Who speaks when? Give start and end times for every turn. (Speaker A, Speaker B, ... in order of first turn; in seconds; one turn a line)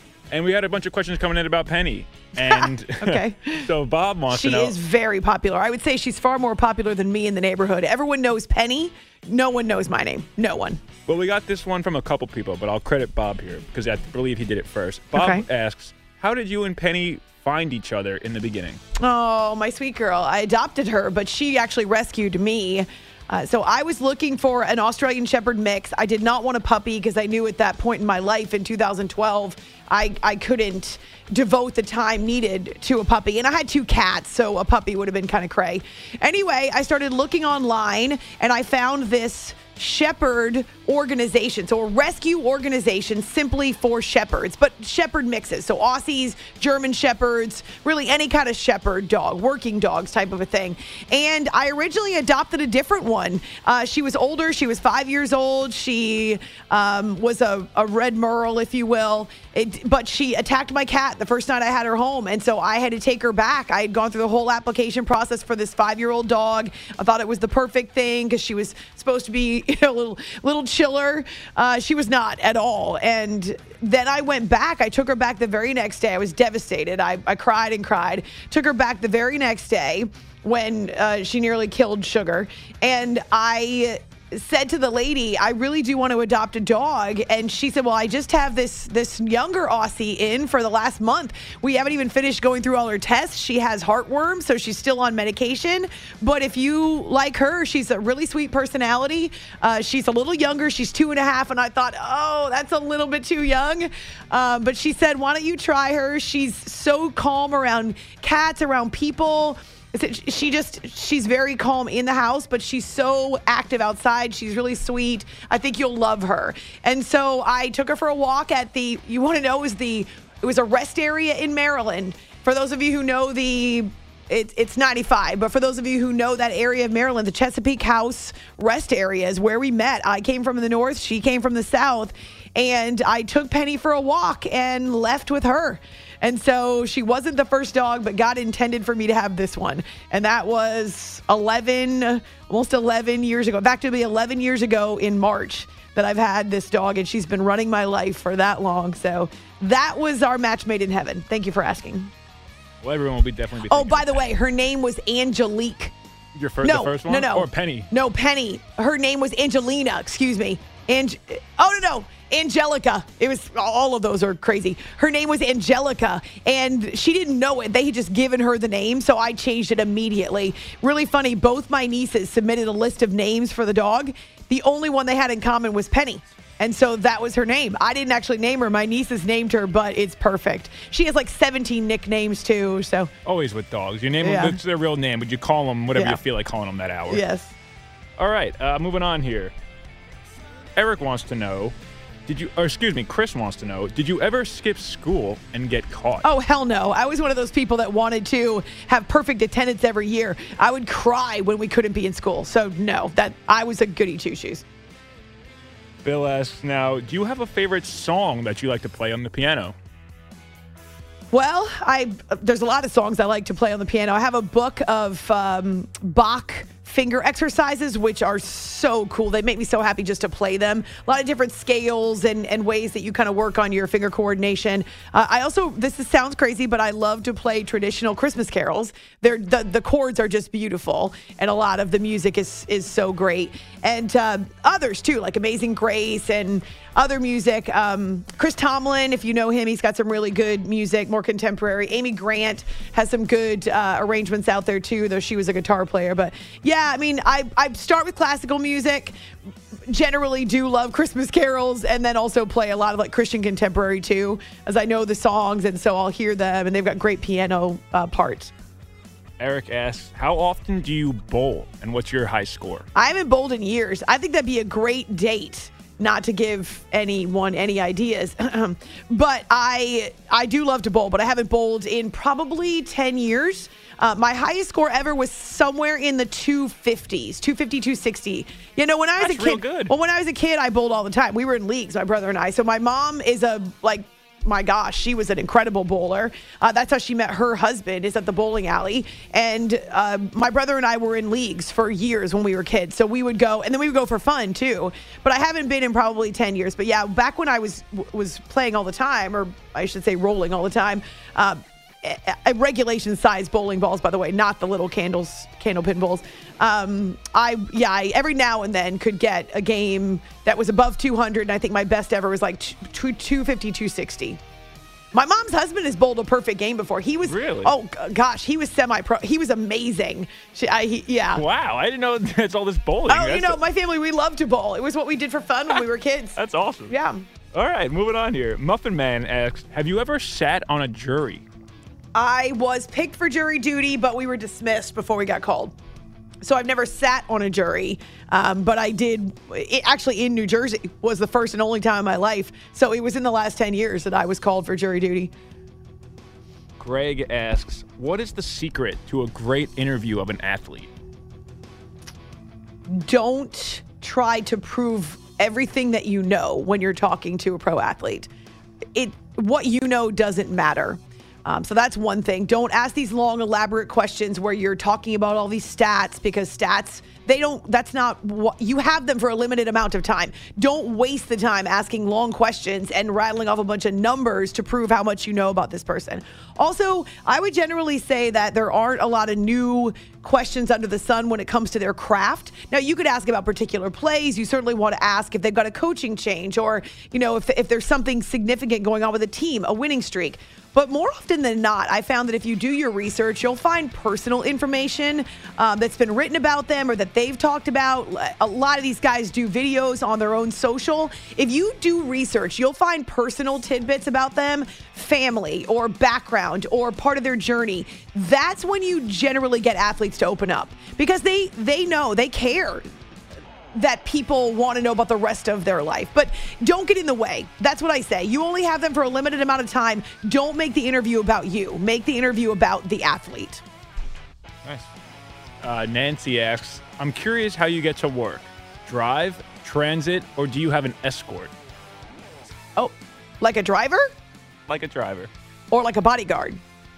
Speaker A: 0.3-4.8
Speaker B: 2.4-3.7
Speaker B: 4.3-10.8
Speaker A: 11.1-18.8
Speaker B: 15.1-15.4
Speaker B: 19.0-152.1
Speaker A: 152.8-154.3
Speaker B: 153.7-155.9
Speaker A: 156.3-157.9
Speaker B: 156.6-183.1
Speaker A: 183.2-187.2
Speaker B: 184.2-184.6
Speaker B: 187.1-187.6
Speaker A: 188.2-189.5
Speaker A: 190.8-191.8
Speaker A: 192.3-196.3
Speaker B: 196.2-204.6
Speaker A: 206.0-209.8
Speaker B: 211.3-249.2
Speaker B: 249.9-258.5
Speaker A: 259.4-262.9
Speaker B: 262.9-314.4
Speaker A: 279.2-279.9
Speaker B: 315.1-321.4
Speaker A: 317.3-317.7
Speaker A: 321.4-323.6
Speaker B: 323.1-326.4
Speaker A: 326.4-327.0
Speaker B: 326.9-327.2
Speaker A: 327.5-331.4
Speaker B: 332.1-335.8
Speaker B: 336.4-345.3
Speaker A: 346.8-350.9
Speaker B: 352.9-358.3
Speaker B: 358.9-412.9
Speaker B: 413.8-423.6
Speaker A: 424.6-424.9
Speaker A: 425.6-431.5
Speaker B: 432.8-434.1
Speaker A: 434.7-435.3
Speaker B: 435.7-436.6